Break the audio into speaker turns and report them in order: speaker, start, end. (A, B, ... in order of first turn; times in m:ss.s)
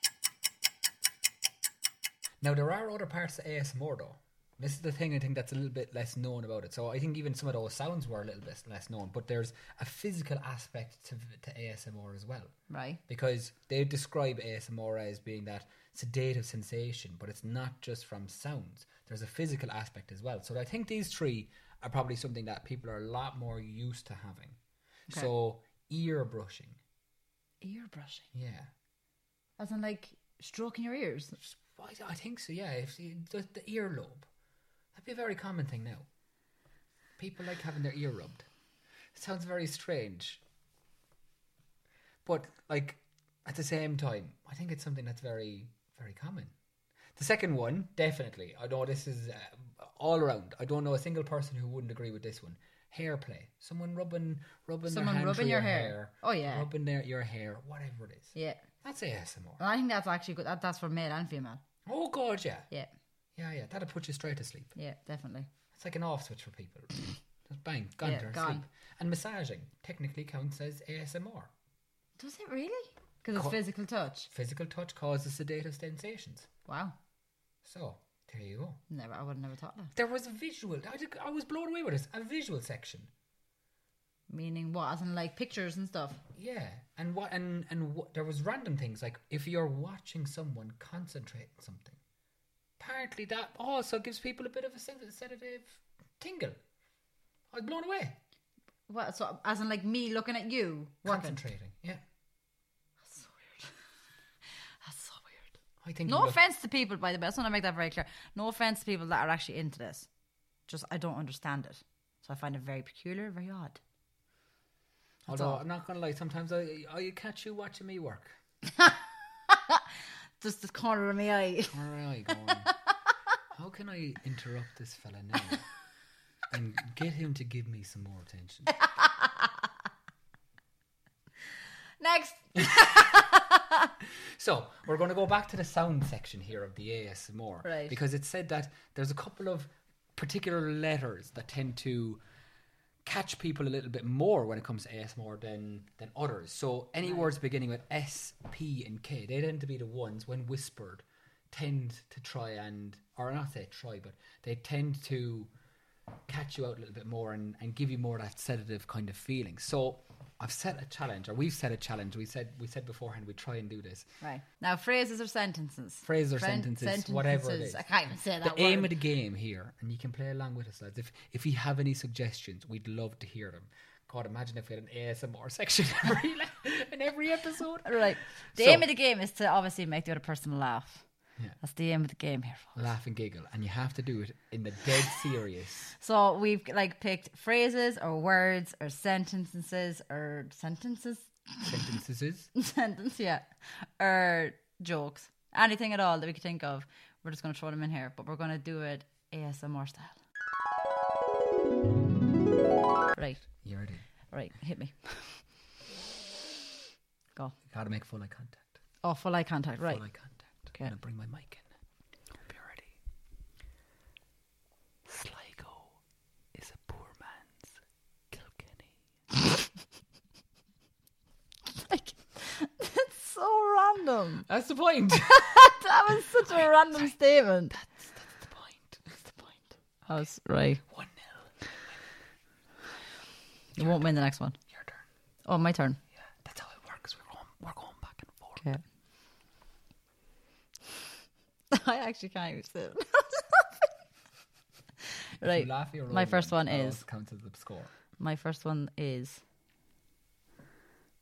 0:02.4-0:12.5 A
0:12.7-0:13.0 B
0:13.1-0:24.6 A
0:25.1-0:26.8 A
0:27.6-0:28.3 B
0:28.3-0:28.7 A
0:29.6-0:31.4 B
0:31.4-0:34.3 A
0:34.9-0:36.1 A
0:37.2-0:38.5 A
0:39.1-0:40.4 A
0:42.2-0:46.5 A
0:47.2-0:59.6 A
0:54.9-0:56.7 B
0:58.4-0:58.6 B
0:59.6-1:01.6 B
1:01.8-1:02.7 A
1:03.4-1:04.7 A
1:04.8-1:05.5 B
1:05.7-1:11.5 A
1:08.0-1:08.6 B
1:12.2-1:14.3 B
1:13.3-1:13.6 A
1:14.3-1:16.5 A
1:16.7-1:16.9 B
1:17.6-1:18.8 A
1:18.9-1:19.9 B
1:19.9-1:23.1 A
1:24.3-1:26.2 B
1:26.3-1:32.0 A
1:32.8-1:36.6 A
1:37.5-1:38.2 A
1:38.9-1:41.4 B
1:41.0-1:42.0 A
1:43.0-1:43.7 B
1:44.8-1:45.5 B
1:45.8-1:46.4 A
1:46.0-1:50.1 B
1:50.7-1:53.8 B
1:55.2-1:58.4 A
1:55.3-1:55.6 B
1:59.5-1:59.8 B
2:00.4-2:01.8 B
2:01.7-2:02.7 A
2:03.5-2:05.6 A
2:06.5-2:08.7 A
2:08.7-2:09.5 B
2:12.0-2:13.9 B
2:14.3-2:22.2 A
2:17.6-2:18.0 B
2:23.0-2:35.5 A
2:27.0-2:27.3 B
2:36.3-2:44.1 A
2:44.2-2:48.9 B
2:46.0-2:47.8 A
2:48.4-2:58.8 A
2:57.8-3:01.0 B
3:01.6-3:02.8 B
3:02.7-3:05.9 A
3:06.0-3:11.7 B
3:11.6-3:12.5 A
3:12.6-3:20.2 B
3:23.1-3:23.4 B
3:23.5-3:24.0 A
3:24.3-3:25.4 B
3:27.7-3:28.8 A
3:29.0-3:30.0 B
3:29.8-3:31.7 A
3:32.4-3:33.0 A
3:35.0-3:36.0 A
3:36.5-3:37.8 A
3:38.3-3:39.0 A
3:41.7-3:44.5 B
3:44.5-3:45.7 A
3:45.2-3:47.7 B
3:46.5-3:47.1 A
3:47.7-3:49.0 A
3:49.1-3:50.8 B
3:50.8-3:51.5 A
3:53.7-3:54.6 B
3:53.8-3:54.1 A
3:54.7-3:55.0 A
3:55.4-3:56.0 B
3:56.2-3:58.7 A
4:01.7-4:03.7 B
4:05.4-4:07.0 B
4:05.4-4:07.9 A
4:08.2-4:09.4 B